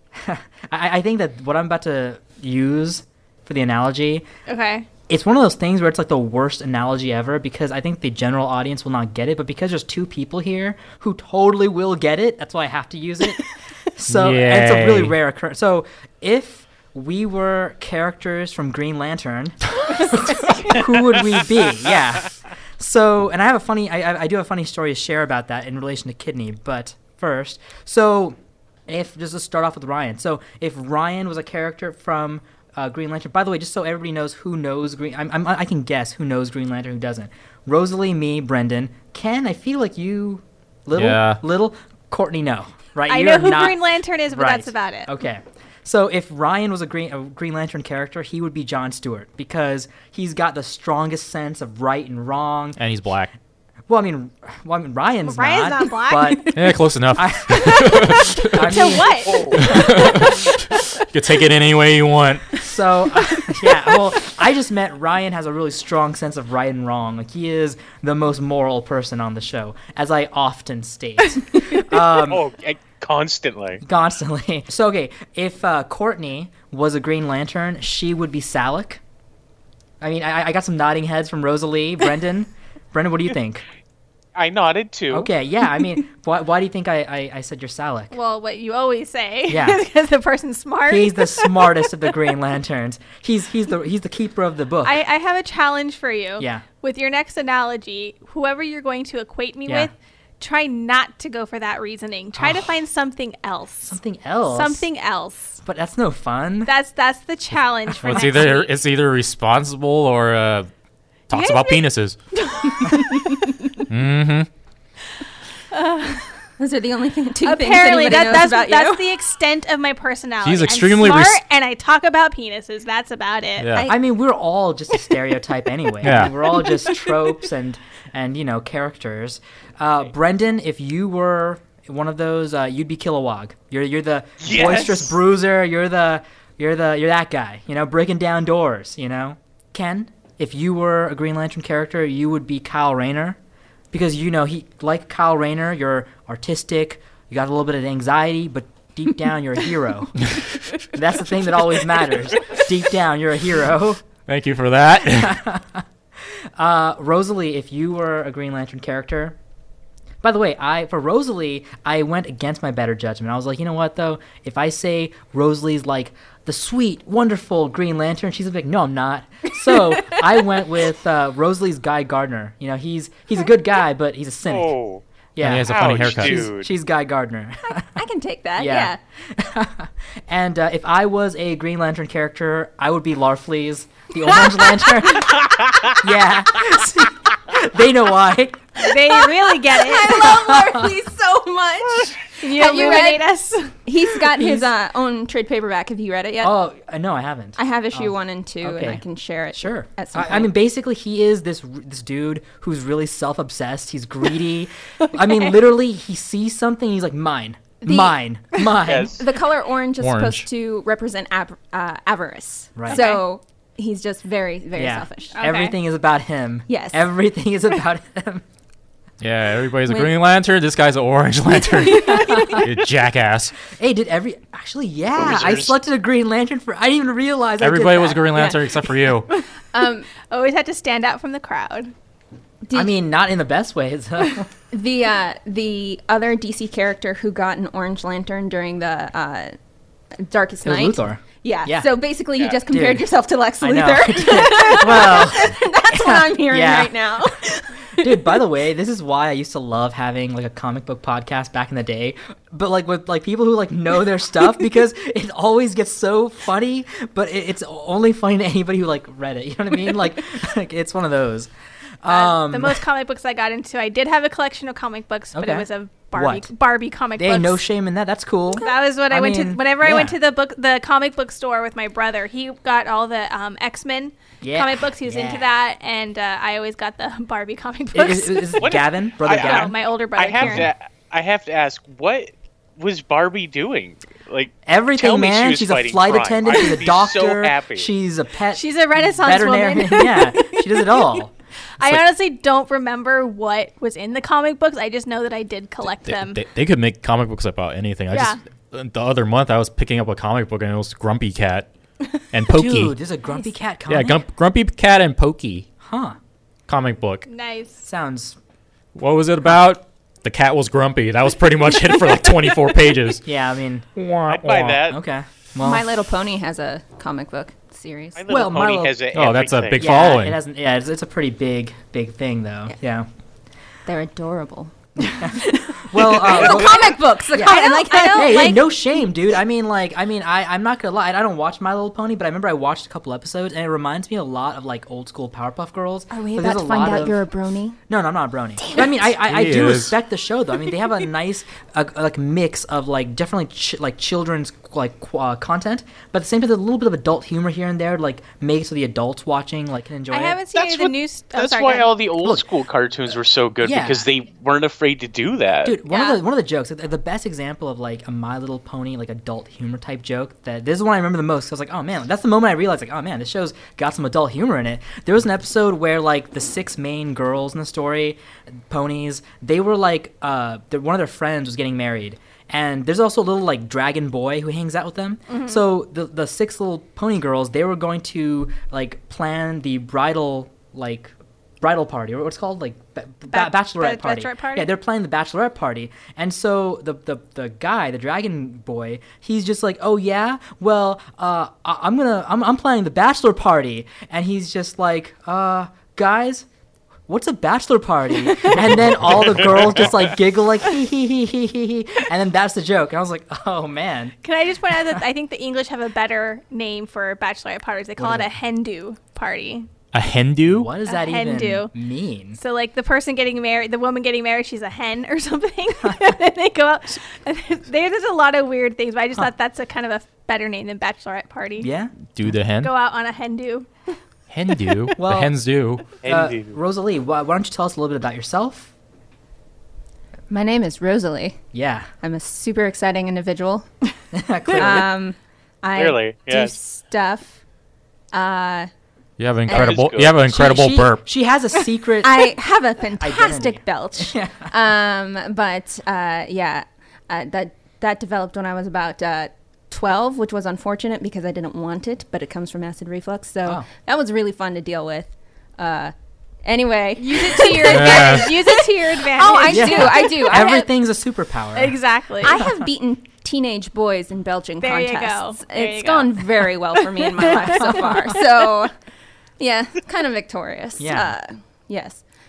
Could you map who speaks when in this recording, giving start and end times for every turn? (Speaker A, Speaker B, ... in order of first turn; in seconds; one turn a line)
Speaker A: 0.1-4.3
Speaker B: 4.5-4.9
Speaker A: 5.1-43.8
Speaker C: 14.1-15.1
Speaker C: 40.9-41.4
Speaker B: 43.1-45.1
Speaker A: 44.3-52.8
Speaker C: 52.8-53.3
Speaker A: 53.9-59.7
Speaker B: 55.2-56.4
Speaker C: 56.5-58.7
Speaker B: 57.9-60.4
Speaker D: 59.3-59.7
Speaker C: 59.6-62.6
Speaker A: 62.6-72.5
Speaker D: 72.2-73.8
Speaker A: 73.8-79.0
Speaker A: 80.0-83.7
Speaker D: 84.3-85.3
Speaker A: 85.1-88.2
Speaker B: 88.1-91.9
Speaker A: 89.5-89.8
Speaker A: 90.9-95.0
Speaker B: 94.8-105.6
Speaker A: 96.4-96.7
Speaker A: 102.3-102.7
Speaker A: 103.8-104.9
Speaker A: 105.6-106.7
Speaker B: 106.7-108.7
Speaker C: 108.0-110.7
Speaker C: 111.3-112.2
Speaker B: 111.3-113.4
Speaker C: 113.9-114.5
Speaker B: 115.7-116.5
Speaker E: 116.6-119.1
Speaker B: 117.4-123.8
Speaker C: 120.4-121.4
Speaker C: 123.6-123.9
Speaker E: 123.7-124.0
Speaker A: 123.9-143.4
Speaker C: 126.0-126.4
Speaker D: 134.4-135.1
Speaker A: 143.9-150.3
Speaker A: 150.8-154.1
Speaker C: 154.3-155.4
Speaker A: 155.1-155.8
Speaker A: 156.6-159.4
Speaker A: 160.2-174.8
Speaker E: 169.7-170.2
Speaker D: 174.5-175.0
Speaker A: 175.4-178.0
Speaker C: 175.4-176.5
Speaker D: 175.6-176.7
Speaker E: 177.7-179.0
Speaker A: 178.6-189.0
Speaker D: 185.7-185.9
Speaker B: 188.8-190.3
Speaker E: 189.2-196.6
Speaker A: 190.2-190.9
Speaker B: 192.4-193.8
Speaker A: 194.2-194.7
Speaker A: 196.4-209.1
Speaker E: 197.6-200.5
Speaker E: 207.9-208.2
Speaker D: 208.8-209.2
Speaker E: 209.1-215.4
Speaker C: 210.0-210.5
Speaker A: 212.8-213.0
Speaker B: 212.9-213.2
Speaker A: 214.8-218.4
Speaker B: 215.3-215.8
Speaker E: 216.7-217.1
Speaker C: 219.2-223.6
Speaker E: 219.9-220.2
Speaker E: 221.8-222.7
Speaker A: 223.7-228.5
Speaker D: 225.2-225.7
Speaker C: 227.6-229.3
Speaker E: 228.3-229.1
Speaker E: 229.6-230.1
Speaker B: 230.3-231.9
Speaker E: 232.7-232.9
Speaker A: 232.7-234.5
Speaker E: 234.7-239.6
Speaker E: 240.2-248.4
Speaker A: 240.6-241.9
Speaker D: 242.4-242.6
Speaker A: 242.7-247.3
Speaker A: 248.0-261.5
Speaker A: 262.0-262.8
Speaker B: 262.1-267.6
Speaker A: 265.3-266.5
Speaker A: 267.2-270.1
Speaker B: 268.6-278.7
Speaker A: 274.4-275.4
Speaker A: 277.9-279.8
Speaker D: 278.6-287.9
Speaker B: 279.2-280.7
Speaker A: 280.4-280.7
Speaker A: 284.7-291.3
Speaker B: 288.6-291.2
Speaker B: 291.8-296.4
Speaker C: 296.1-301.7
Speaker B: 298.1-298.4
Speaker C: 302.3-302.9
Speaker A: 302.5-304.2
Speaker C: 303.9-305.7
Speaker A: 305.8-306.2
Speaker C: 306.7-307.3
Speaker B: 307.3-307.8
Speaker A: 307.8-308.4
Speaker C: 309.0-313.2
Speaker A: 313.3-313.9
Speaker C: 314.0-314.9
Speaker D: 314.3-315.0
Speaker A: 314.9-315.9
Speaker E: 315.6-318.2
Speaker D: 318.2-319.9
Speaker A: 318.3-319.0
Speaker C: 319.1-320.4
Speaker A: 319.8-323.1
Speaker E: 323.9-328.7
Speaker A: 325.2-337.2
Speaker B: 327.4-328.6
Speaker E: 336.1-337.8
Speaker A: 337.9-350.4
Speaker E: 338.6-338.9
Speaker C: 339.2-339.9
Speaker B: 350.1-351.9
Speaker D: 350.5-355.8
Speaker A: 353.6-354.1
Speaker A: 355.6-396.5
Speaker B: 355.9-356.2
Speaker B: 375.3-375.6
Speaker B: 383.3-384.7
Speaker A: 397.1-404.1
Speaker D: 399.3-399.9
Speaker B: 404.2-409.7
Speaker A: 404.7-405.0
Speaker A: 408.0-408.3
Speaker C: 409.9-410.7
Speaker A: 410.4-412.4
Speaker B: 410.9-411.7
Speaker B: 412.4-421.7
Speaker A: 415.8-416.1
Speaker A: 421.6-421.9
Speaker C: 422.1-422.7
Speaker B: 422.6-423.9
Speaker C: 424.3-425.9
Speaker A: 425.0-425.4
Speaker D: 426.0-426.6
Speaker A: 426.0-428.7
Speaker E: 430.3-431.4
Speaker A: 431.5-431.9
Speaker E: 432.0-433.7
Speaker A: 434.1-434.9
Speaker E: 434.5-437.4
Speaker D: 435.8-436.6
Speaker E: 438.1-438.7
Speaker C: 439.2-441.0
Speaker E: 439.5-439.8
Speaker D: 439.5-440.2
Speaker A: 440.3-442.4
Speaker E: 442.0-460.7
Speaker A: 443.0-444.5
Speaker B: 457.0-460.4
Speaker C: 457.5-458.3
Speaker A: 459.5-462.6
Speaker B: 461.6-462.3
Speaker E: 462.2-468.7
Speaker B: 464.6-468.2
Speaker A: 467.2-468.1
Speaker E: 469.4-472.1
Speaker A: 470.8-471.1